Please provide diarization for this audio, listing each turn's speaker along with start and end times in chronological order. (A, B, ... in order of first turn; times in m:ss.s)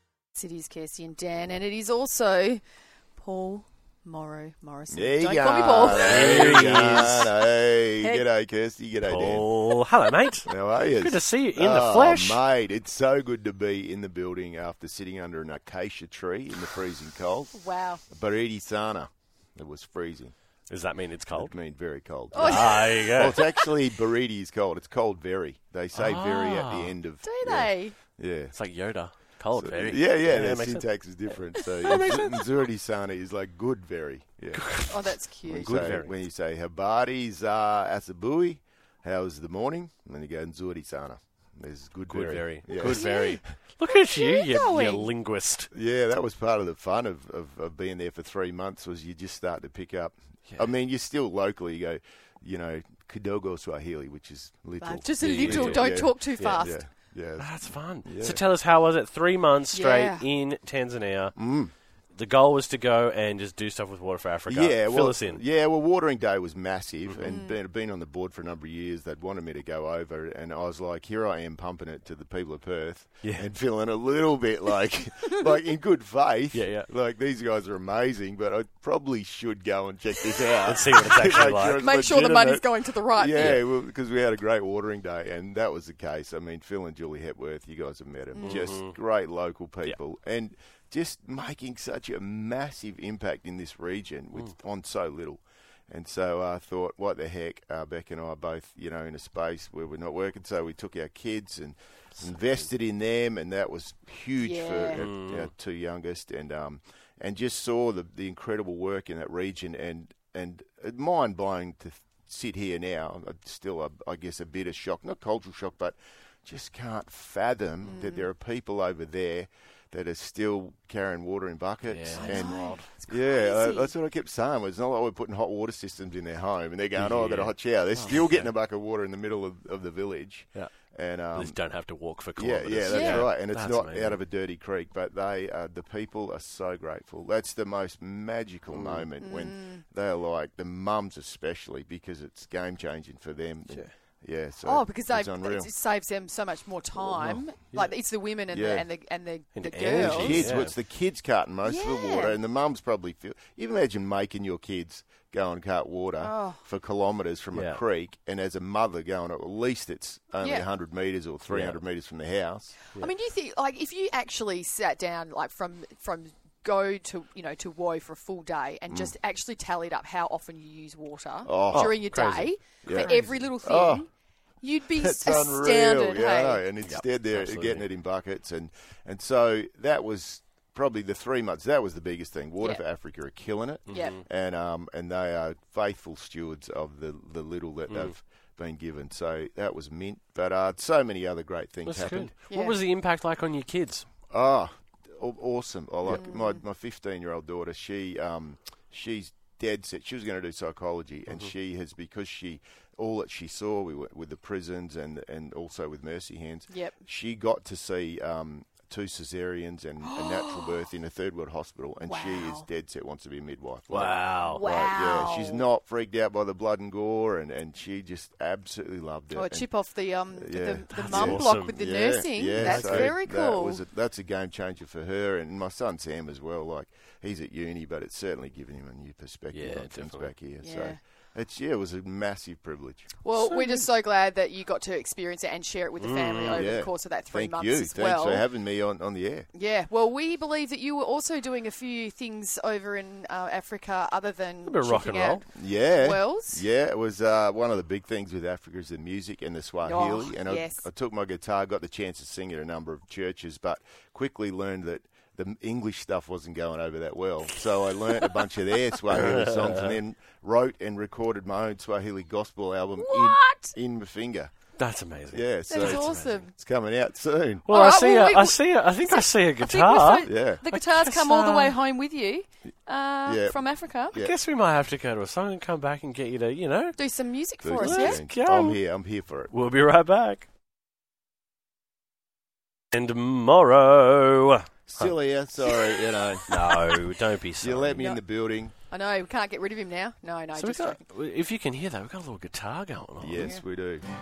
0:00.4-0:02.6 A
0:03.2-0:07.2 A
0:04.9-0:09.5 B
0:05.9-0:07.3 C
0:08.0-0:08.2 A
0:09.0-0:12.4 C
0:10.5-0:17.6 B
0:17.5-0:18.0 A
0:18.1-0:20.3 B
0:20.7-0:21.5 C
0:21.3-0:28.5 B
0:22.3-0:23.4 A
0:22.4-0:23.4 C
0:25.9-0:26.9 C
0:27.2-0:28.0 A
0:28.5-0:30.8 C
0:29.5-0:34.8 B
0:31.8-0:32.5 C
0:34.5-0:36.1 C
0:34.9-0:35.8 A
0:35.4-0:43.2 B
0:42.1-0:45.7 C
0:42.7-0:45.1 A
0:45.7-0:58.4 B
0:54.8-0:56.8 A
0:55.2-0:55.9 C
0:57.4-1:01.3 C
0:59.7-1:00.3 A
1:01.4-1:01.7 B
1:02.2-1:05.4 C
1:04.5-2:11.6 B
1:07.1-1:07.3 C
1:07.2-1:07.6 A
1:13.2-1:13.5 C
1:16.5-1:16.9 C
1:20.6-1:21.8 C
1:21.8-1:23.6 A
1:28.3-1:28.7 A
1:28.4-1:28.9 C
1:42.2-1:42.7 C
1:44.4-1:45.0 A
1:44.9-1:45.5 C
1:57.8-1:58.3 A
2:01.9-2:02.9 C
2:02.2-2:03.9 A
2:07.0-2:08.5 C
2:11.3-2:14.2 C
2:12.4-2:25.7 B
2:12.9-2:13.2 A
2:18.7-2:19.1 C
2:19.2-2:19.8 A
2:24.6-2:30.5 A
2:27.0-2:27.4 B
2:28.5-2:28.9 B
2:29.5-2:30.7 C
2:29.9-2:42.8 B
2:31.6-2:32.4 A
2:36.2-2:36.6 A
2:37.5-2:37.8 C
2:40.4-2:40.7 A
2:41.5-2:41.8 C
2:42.9-2:54.1 A
2:51.4-2:51.9 B
2:51.7-2:53.3 C
2:52.8-2:54.0 B
2:54.6-2:56.6 A
2:54.9-3:12.3 B
2:56.8-2:57.8 C
3:03.9-3:04.2 C
3:07.9-3:08.1 C
3:11.8-3:14.1 C
3:12.5-3:12.8 A
3:14.3-3:39.7 B
3:16.1-3:16.6 A
3:21.3-3:21.5 C
3:26.7-3:26.9 A
3:30.0-3:30.8 A
3:32.1-3:32.7 A
3:33.9-3:34.6 C
3:34.5-3:35.6 A
3:39.3-3:43.8 A
3:40.4-3:53.7 B
3:40.9-3:41.8 C
3:42.5-3:43.2 C
3:49.5-3:50.3 C
3:50.6-3:51.0 A
3:53.2-3:58.4 A
3:56.0-3:56.7 C
3:56.5-3:59.5 B
3:59.5-4:06.6 A
4:04.6-4:05.4 C
4:05.5-4:24.5 B
4:09.8-4:10.8 A
4:19.1-4:20.0 C
4:23.0-4:23.8 A
4:24.8-4:26.4 C
4:25.3-4:27.7 B
4:25.7-4:26.5 A
4:27.7-4:31.8 C
4:27.7-4:34.2 A
4:30.2-4:30.6 B
4:33.3-4:33.6 B
4:34.1-4:37.0 C
4:37.0-4:38.2 A
4:37.6-4:39.5 B
4:37.8-4:38.8 C
4:39.5-4:40.5 C
4:42.9-4:45.2 C
4:44.9-4:46.5 B
4:46.5-4:48.1 C
4:47.6-4:48.7 B
4:48.9-4:51.0 A
4:50.6-4:53.5 C
4:53.2-4:54.0 B
4:53.4-4:53.6 A